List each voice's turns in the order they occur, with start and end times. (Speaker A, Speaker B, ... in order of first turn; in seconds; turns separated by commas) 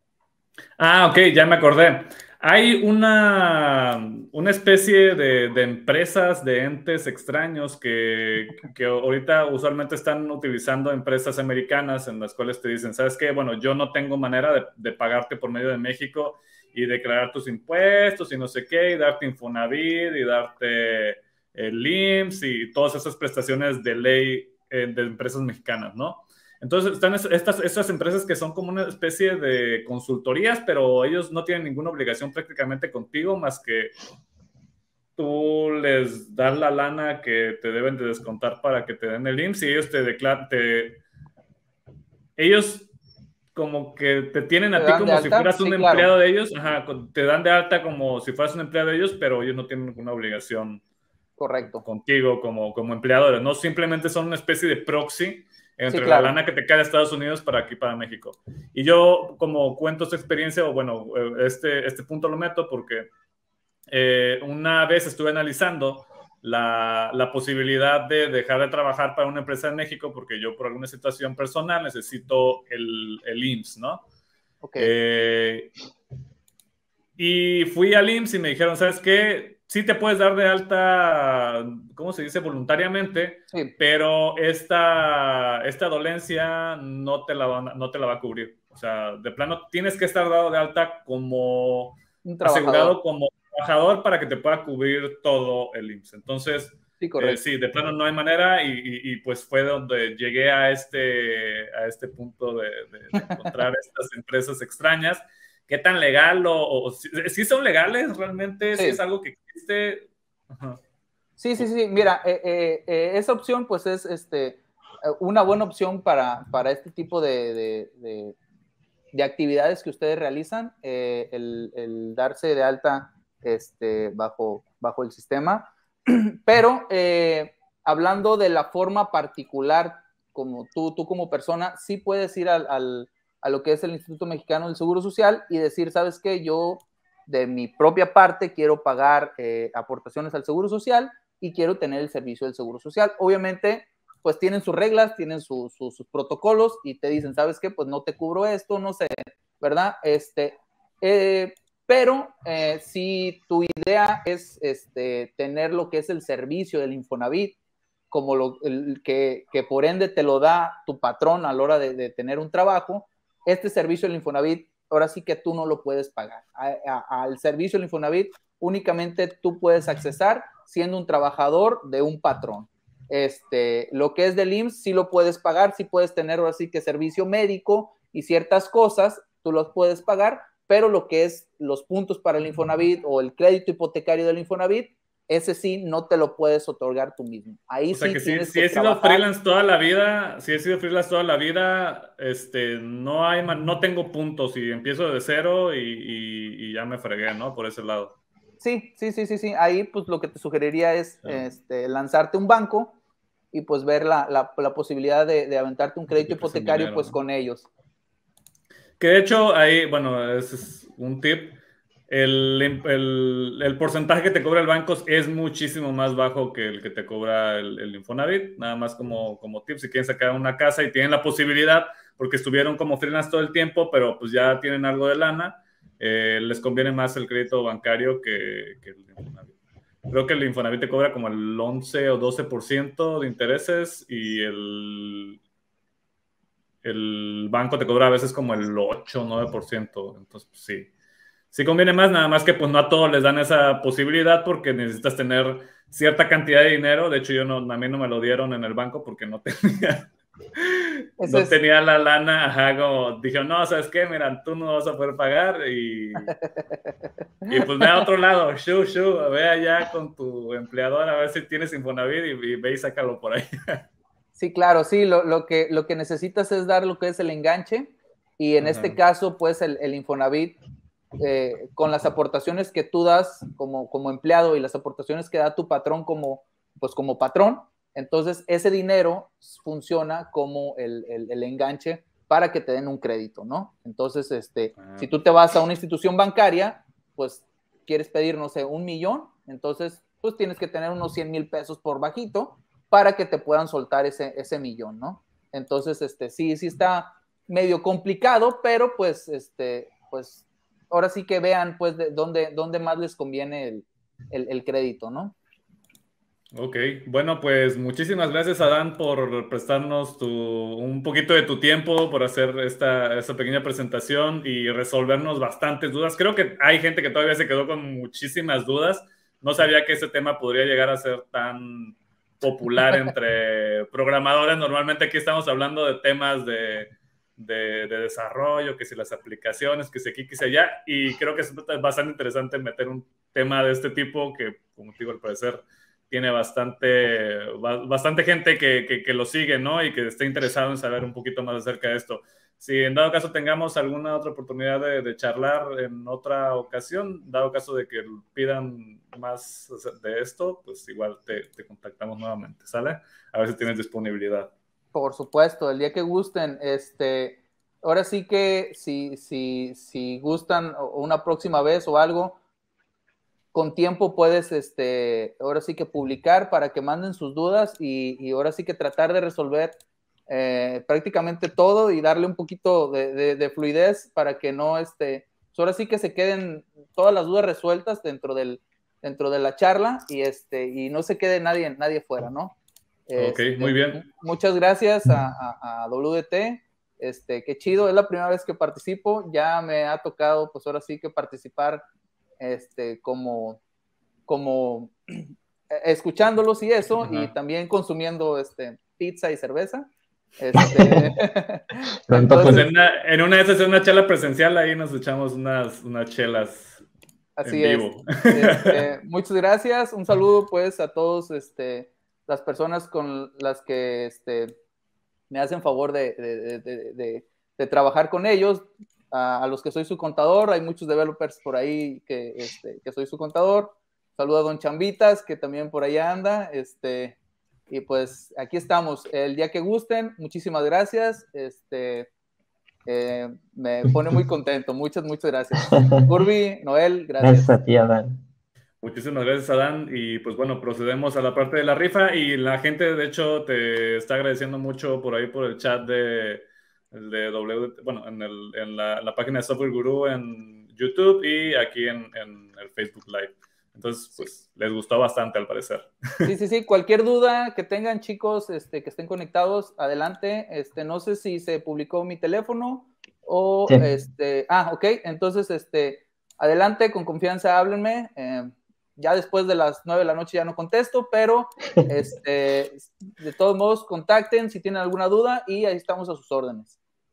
Speaker A: 0.8-33.9, Speaker A: 35.2-41.0, Speaker A: 42.4-42.9, Speaker A: 43.5-50.8, Speaker B: 44.8-46.1, Speaker B: 51.4-51.9, Speaker A: 51.6-63.1, Speaker B: 55.9-56.4, Speaker A: 63.9-74.0, Speaker B: 74.6-74.9, Speaker A: 74.8-75.7, Speaker A: 77.2-110.8, Speaker B: 92.2-93.0, Speaker B: 97.0-97.4, Speaker B: 103.2-103.5, Speaker B: 111.4-118.4, Speaker B: 119.1-157.6, Speaker B: 158.1-189.2, Speaker A: 187.9-198.2, Speaker B: 198.6-203.0, Speaker B: 203.5-207.7, Speaker A: 206.1-207.2, Speaker A: 209.0-229.6, Speaker A: 230.1-235.4, Speaker A: 236.8-240.9, Speaker A: 241.5-256.3, Speaker B: 251.2-251.6, Speaker B: 257.4-258.0, Speaker A: 257.5-263.9, Speaker B: 264.4-270.6, Speaker A: 268.6-269.0, Speaker B: 271.2-305.4, Speaker A: 284.8-285.3, Speaker A: 306.5-354.5, Speaker B: 354.9-362.4, Speaker B: 363.5-369.8, Speaker B: 370.3-382.6, Speaker B: 383.1-391.8, Speaker A: 383.2-384.0, Speaker B: 392.4-393.6, Speaker B: 394.3-402.7, Speaker A: 397.0-397.3, Speaker C: 400.6-401.1, Speaker C: 402.1-402.6, Speaker A: 402.4-406.8, Speaker B: 407.4-414.6, Speaker A: 407.4-408.9, Speaker B: 415.3-427.2, Speaker B: 427.7-432.1, Speaker B: 432.9-437.5, Speaker C: 435.6-436.1, Speaker C: 437.2-438.2, Speaker A: 438.8-456.3, Speaker B: 456.2-476.8